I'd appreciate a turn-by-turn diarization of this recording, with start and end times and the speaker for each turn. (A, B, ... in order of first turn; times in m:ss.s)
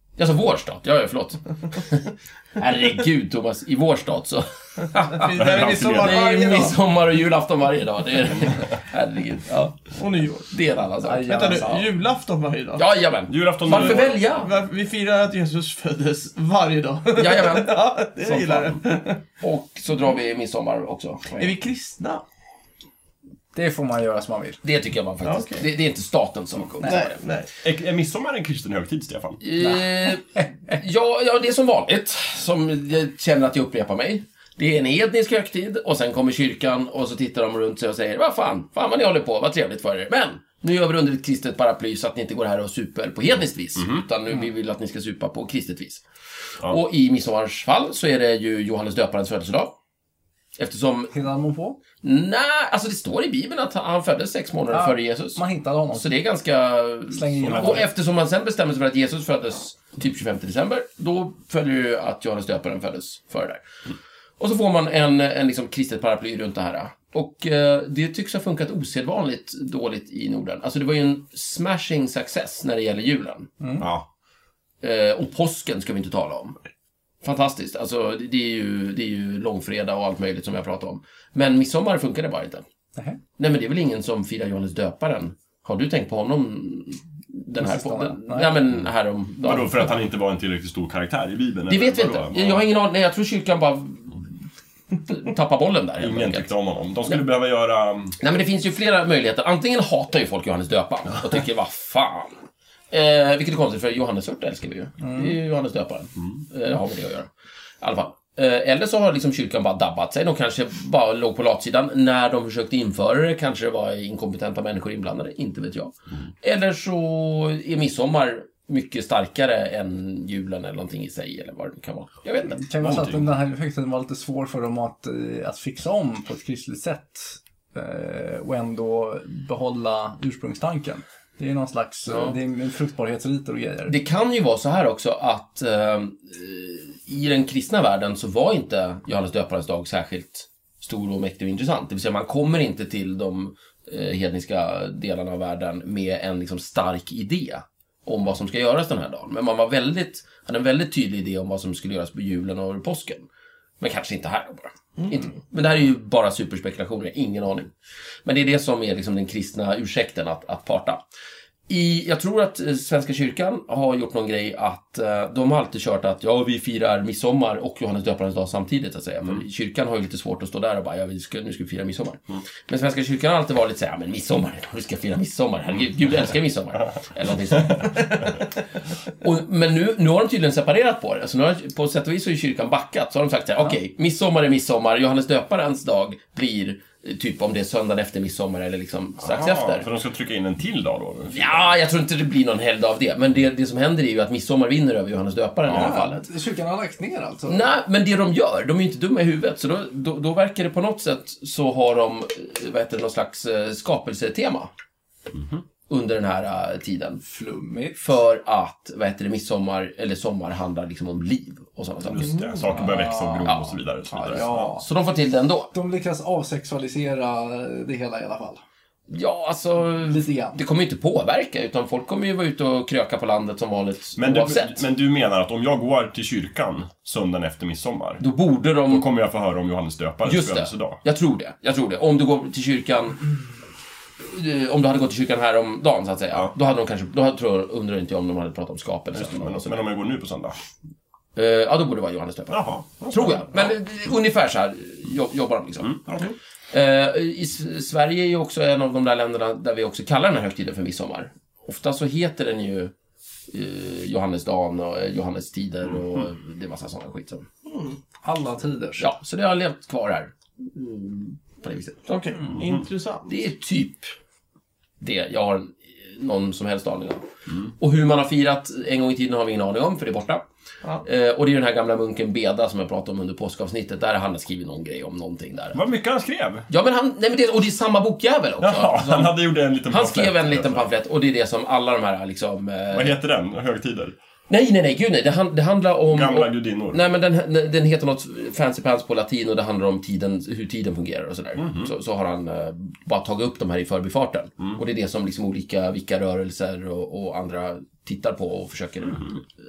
0:00.2-0:09.8 A
0:05.0-0:06.8 B
0:05.3-0:06.3 C
0:09.9-0:10.5 B
0:10.5-0:11.7 A
0:11.0-0:11.9 D
0:11.3-0:12.8 B
0:12.8-0:14.5 A
0:13.3-0:14.2 C
0:13.7-0:19.2 B
0:17.2-0:17.7 A
0:18.3-0:18.8 A
0:19.4-0:21.5 A
0:21.4-0:22.2 B
0:23.5-0:24.6 D
0:24.6-0:27.2 A
0:25.2-0:25.6 B
0:26.8-0:27.5 B
0:27.6-0:29.4 C
0:29.4-0:46.0 A
0:29.6-0:30.4 D
0:43.8-0:44.0 C
0:46.6-0:49.8 A
0:50.6-0:51.1 A
0:51.1-0:51.8 D
0:52.0-1:03.6 A
0:54.7-0:56.1 D
0:57.1-0:57.8 D
0:57.4-0:57.8 C
1:04.4-1:13.5 A
1:13.6-1:13.9 D
1:13.8-1:14.1 C
1:14.8-1:16.6 A
1:17.2-1:22.6 A
1:23.4-1:29.9 A
1:27.6-1:28.6 D
1:29.4-1:32.6 C
1:31.7-1:34.3 A
1:35.0-1:36.5 A
1:36.0-1:38.2 C
1:38.2-1:42.3 A
1:42.9-1:47.3 A
1:45.0-1:45.4 D
1:47.8-2:02.6 A
2:02.5-2:13.9 D
2:02.8-2:03.3 C
2:12.1-2:12.4 A
2:13.9-2:33.3 A
2:33.8-2:37.7 A
2:35.0-2:35.3 B
2:38.2-2:41.0 A
2:41.7-2:58.5 A
2:59.2-3:09.8 A
3:09.2-3:11.7 C
3:11.3-3:16.3 A
3:15.7-3:17.6 D
3:17.5-3:24.7 A
3:25.3-3:25.6 C
3:25.9-3:27.2 A
3:27.2-3:28.0 D
3:28.0-3:32.4 A
3:32.0-3:34.7 C
3:32.2-3:32.6 B
3:32.7-3:34.9 D
3:33.4-3:33.7 A
3:34.3-3:35.7 A
3:35.7-3:38.6 D
3:39.1-3:44.8 A
3:39.9-3:40.6 D
3:44.2-3:48.2 C
3:48.2-3:49.0 A
3:48.9-3:51.0 C
3:50.2-3:53.2 A
3:54.2-3:59.8 A
3:59.1-4:00.6 C
4:01.3-4:06.0 A
4:02.5-4:03.7 C
4:05.8-4:06.3 C
4:06.7-4:12.9 A
4:13.5-4:17.4 A
4:17.7-4:18.0 B
4:18.2-4:19.0 D
4:19.0-4:22.1 A
4:22.1-4:23.3 B
4:23.3-4:24.1 A
4:25.0-4:27.2 A
4:27.8-4:30.4 A
4:31.0-4:35.8 A
4:35.7-4:36.7 C
4:36.7-4:39.4 A
4:38.6-4:40.9 C
4:39.9-4:43.1 A
4:42.9-4:44.1 C
4:44.5-4:59.4 A
4:46.1-4:47.0 C
4:51.6-4:51.9 C